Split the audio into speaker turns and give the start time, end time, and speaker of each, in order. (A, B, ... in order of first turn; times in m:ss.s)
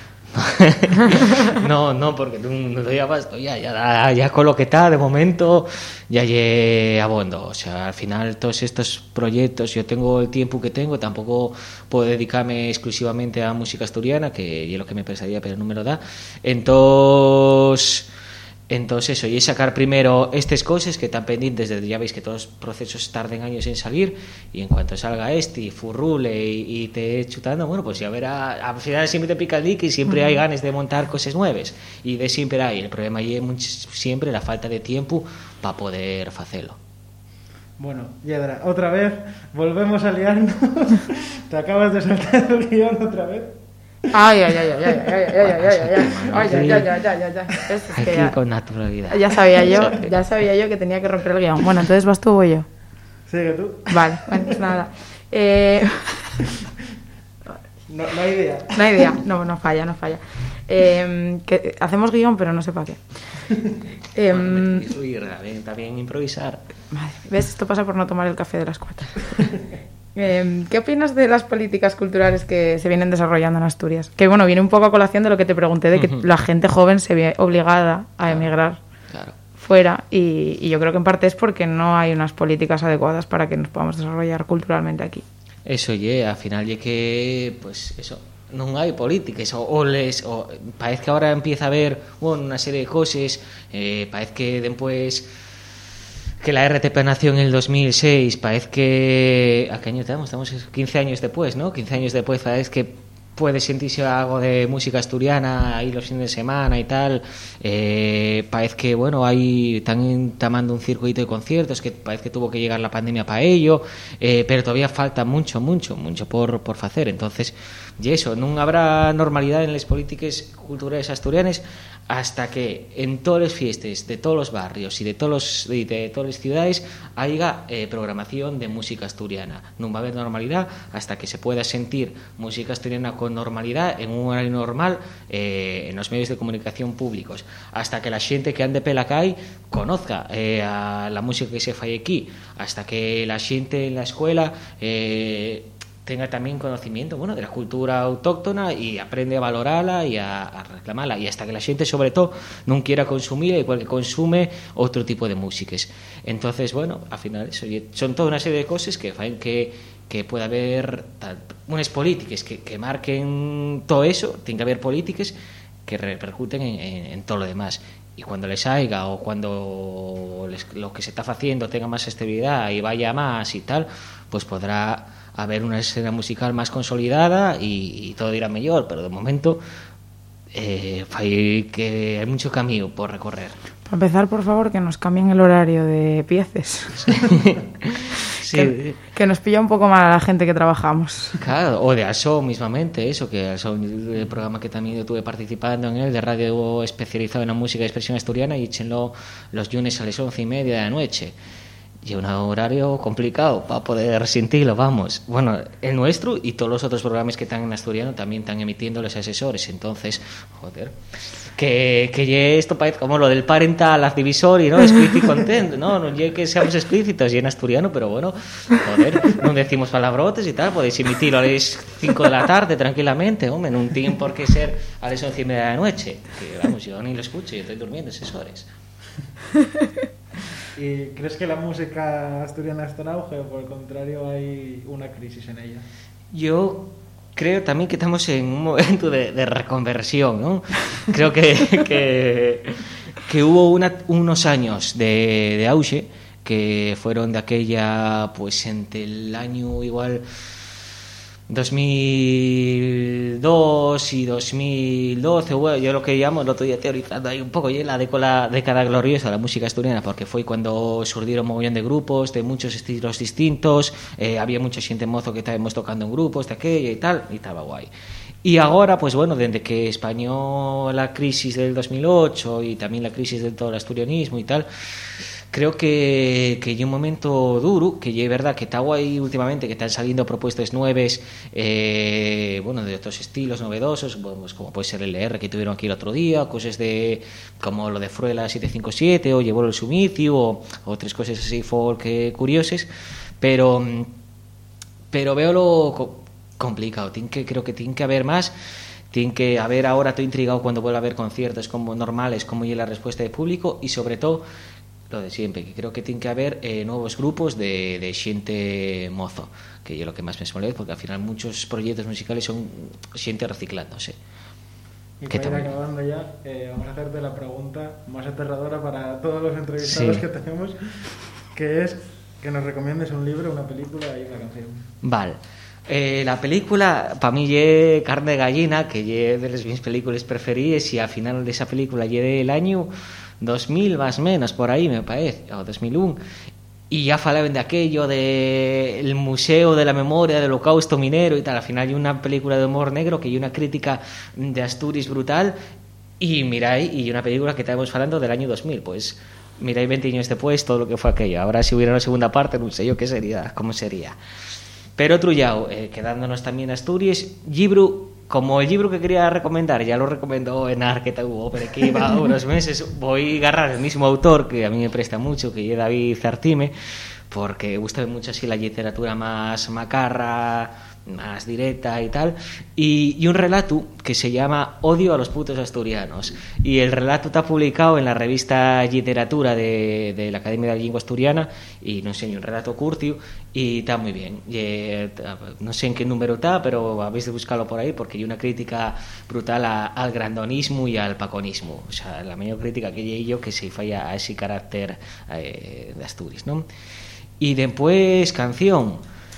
0:00.3-0:18.1 A
0:18.7-0:36.8 A
0:37.8-0:43.6 B
0:44.1-0:48.4 C
0:45.4-0:47.0 A
0:47.9-0:50.0 A
0:49.1-0:52.7 C
0:53.3-0:54.5 B
0:53.9-0:56.4 C
0:57.9-0:59.1 B
0:58.7-1:03.0 C
1:04.2-1:04.9 C
1:04.3-1:06.6 A
1:06.9-1:09.5 C
1:10.2-1:18.8 C
1:16.0-1:16.2 A
1:19.1-1:19.4 A
1:19.6-1:25.2 C
1:25.6-1:35.3 A
1:36.4-2:59.6 A
3:00.5-3:03.6 A
3:03.9-3:07.1 C
3:07.1-3:09.0 A
3:08.5-3:11.4 C
3:11.4-3:21.4 A
3:22.0-3:48.7 A
3:50.8-3:55.8 B
3:56.3-4:10.2 A
4:11.5-4:27.9 A
4:28.4-4:34.7 A
4:35.5-4:52.9 A
4:53.4-4:54.1 A
4:55.1-4:58.5 A
4:59.1-5:04.4 A
5:05.1-5:14.2 A
5:15.2-5:24.8 B
5:15.3-5:15.7 A
5:19.8-5:20.3 A
5:25.0-5:32.9 A
5:33.4-5:36.2 A
5:36.9-5:45.6 A
5:46.2-5:54.2 A
5:55.0-6:06.7 A
6:07.3-6:36.7 A
6:37.4-6:39.0 A